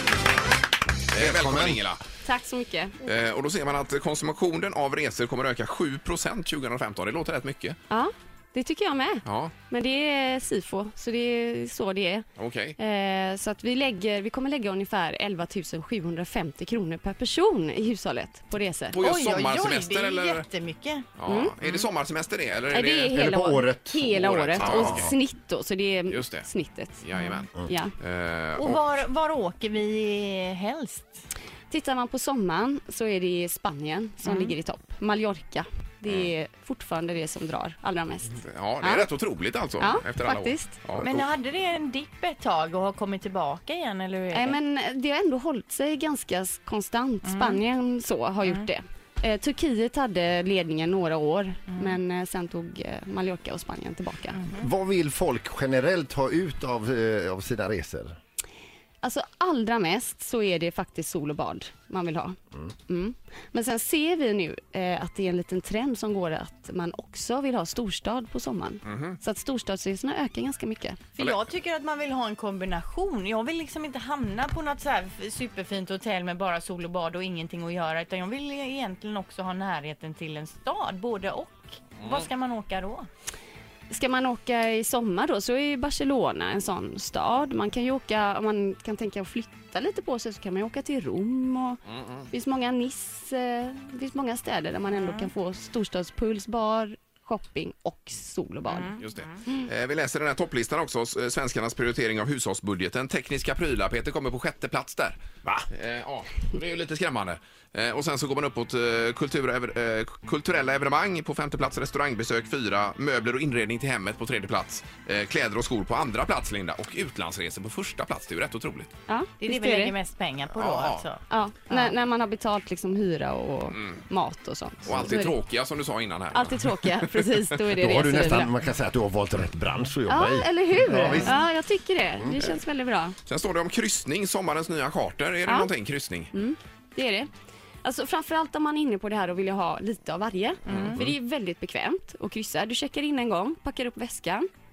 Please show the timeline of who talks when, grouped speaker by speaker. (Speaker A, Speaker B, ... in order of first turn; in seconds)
Speaker A: 1.1-2.0, 3.0-7.8, 9.2-9.5, 12.4-12.8, 18.9-20.4, 21.2-23.2, 24.0-25.1, 26.1-26.5, 27.0-27.5, 28.0-28.8, 38.4-41.2, 68.8-69.2, 99.0-105.2, 105.7-118.9, 120.5-121.1, 124.8-127.2, 133.2-136.3, 140.7-141.1
Speaker B: 1.1-1.8, 23.1-25.1, 54.6-58.2, 127.8-131.4, 132.2-132.5
Speaker C: 2.2-2.9, 7.9-12.2, 12.8-19.0, 21.3-21.8, 22.7-27.0, 27.6-27.9, 31.7-39.1, 39.8-40.8, 44.3-54.5, 59.0-71.1, 83.9-98.9, 119.1-120.0, 121.3-125.3, 126.3-128.5, 130.1-133.1, 136.3-137.3, 137.8-144.4
Speaker D: 19.0-21.1, 27.1-27.4, 28.6-31.2, 34.2-34.5, 41.0-44.5, 47.2-47.6, 51.7-52.0, 71.1-83.1, 94.9-95.3, 98.7-99.1, 119.4-121.9